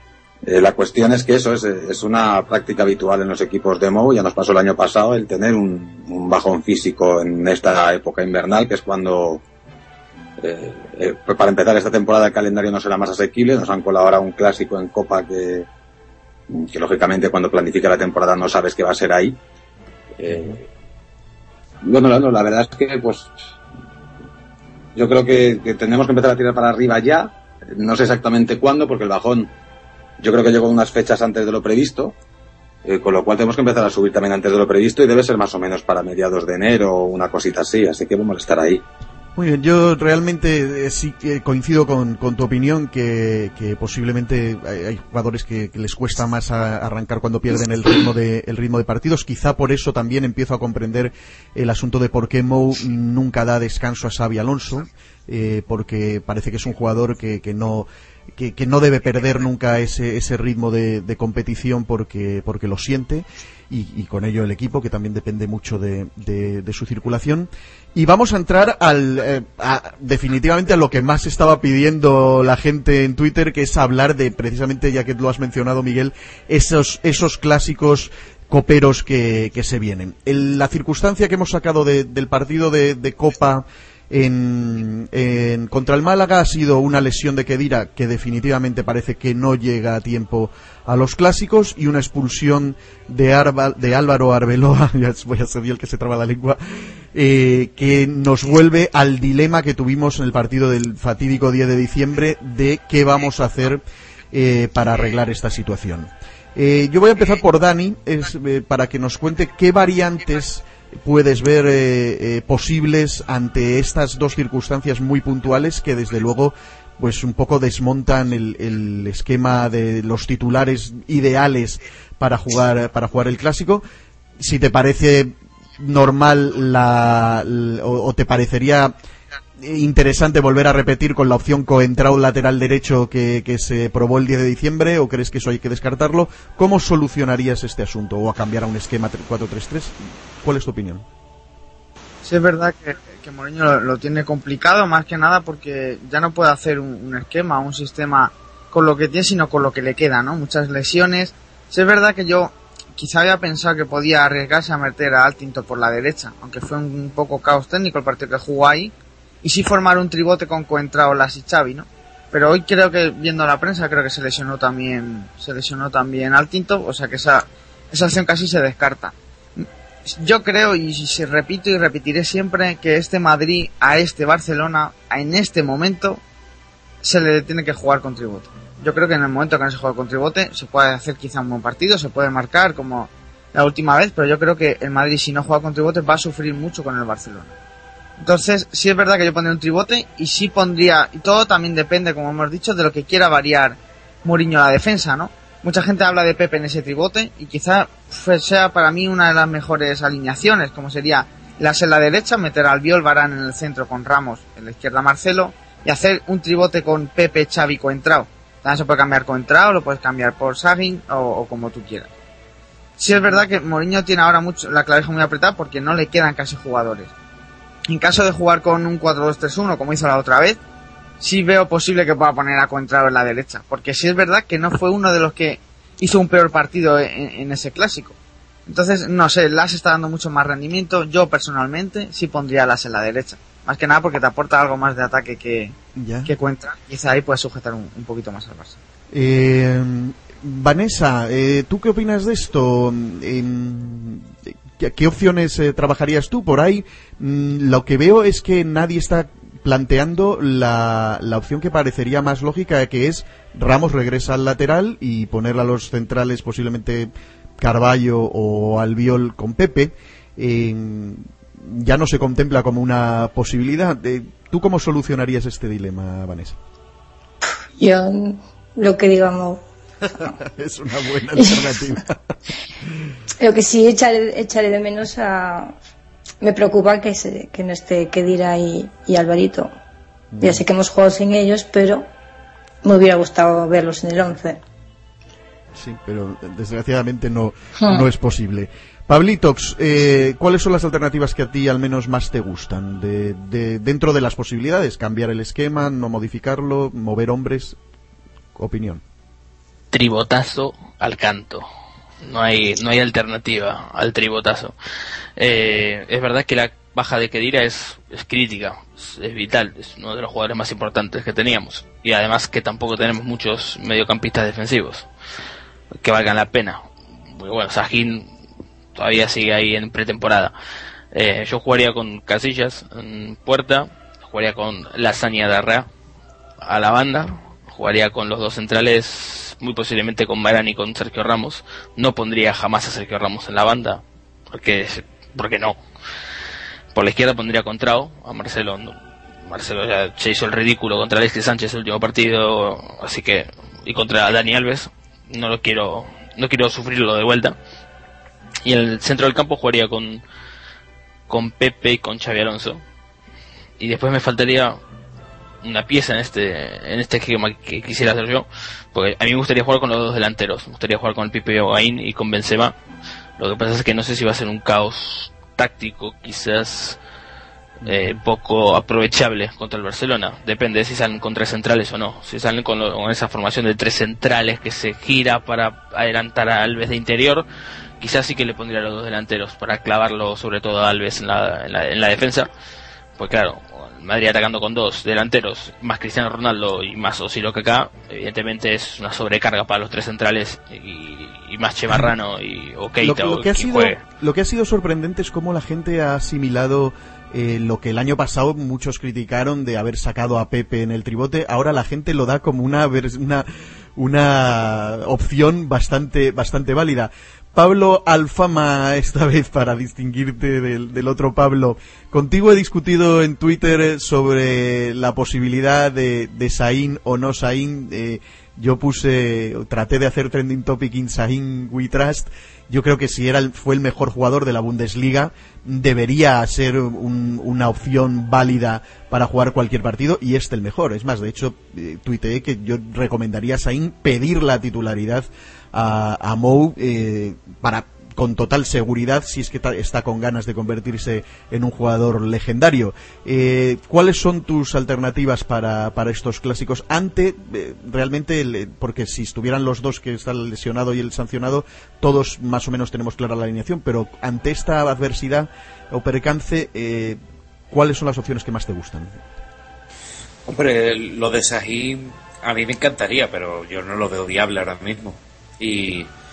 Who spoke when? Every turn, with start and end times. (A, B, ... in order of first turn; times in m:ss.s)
0:00.4-0:09.4 A
0:10.4-0:15.7 A
0:16.5-0:19.4 A
0:20.2-0:20.6 A
0:20.3-0:20.6 B
0:21.8-0:23.3 A
0:25.0-0:29.5 A
0:30.2-0:32.1 A
0:32.8-0:38.8 A
0:39.4-1:36.6 B
1:37.1-2:03.8 B
2:04.4-2:08.9 B
2:09.6-2:21.0 B
2:22.2-2:56.2 C
2:57.0-3:07.5 C
3:08.2-3:32.1 C
3:33.0-3:37.1 C
3:37.9-3:40.6 C
3:41.2-3:48.2 C
3:48.7-3:55.7 C
3:56.0-3:56.3 B
3:56.2-3:58.8 C
3:59.1-4:26.6 B
4:27.8-4:29.6 D
4:30.2-4:32.2 B
4:33.4-4:35.7 D
4:36.4-4:39.7 D
4:40.3-4:40.6 B
4:40.4-4:42.1 D
4:42.8-4:44.6 D
4:45.7-4:57.8 B
4:47.8-4:48.0 D
4:58.5-4:59.0 B
4:59.9-5:01.6 E
5:02.2-5:04.7 E
5:05.4-5:15.1 E
5:16.0-5:18.3 E
5:18.9-5:20.5 E
5:21.1-5:25.9 E
5:26.6-5:35.8 E
5:36.9-5:47.6 E
5:48.6-5:50.2 E
5:51.3-5:52.8 E
5:53.8-5:54.8 E
5:55.6-6:02.7 E
6:03.4-6:07.0 E
6:07.8-6:08.1 B
6:07.8-6:17.4 E
6:18.0-6:22.5 E
6:23.2-6:34.0 E
6:33.0-7:37.2 B
7:37.7-7:39.2 B
7:40.4-7:46.1 F